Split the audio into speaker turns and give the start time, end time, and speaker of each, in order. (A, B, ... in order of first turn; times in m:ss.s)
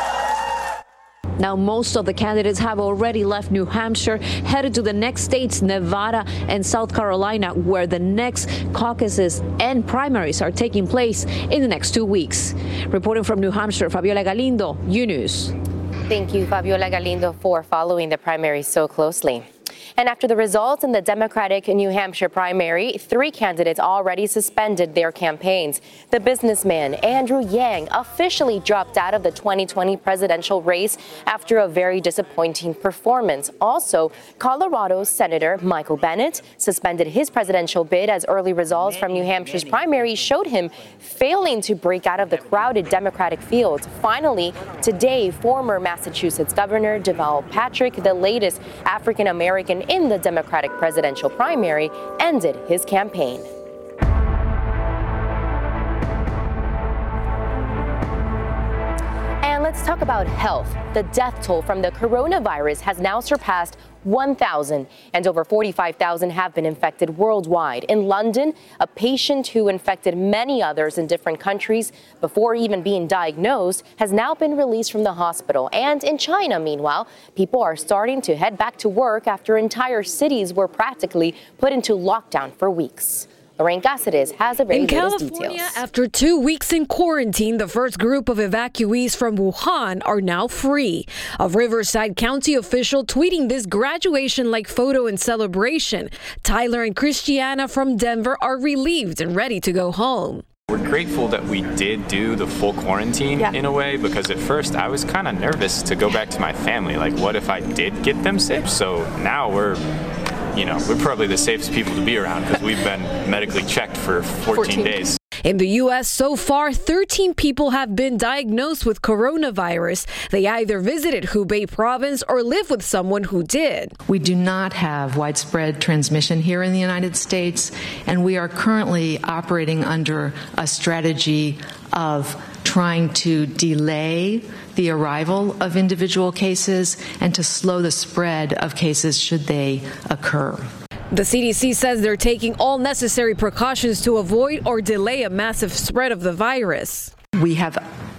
0:01.4-0:15.5 A
0:16.1-0:19.4 B
0:20.0-0:53.5 B
0:59.4-1:25.8 B
1:24.7-1:40.4 C
1:40.7-1:49.8 D
1:50.5-1:55.2 D
1:55.4-2:03.9 C
2:04.0-2:20.7 E
2:21.1-2:27.1 C
2:27.3-2:27.8 E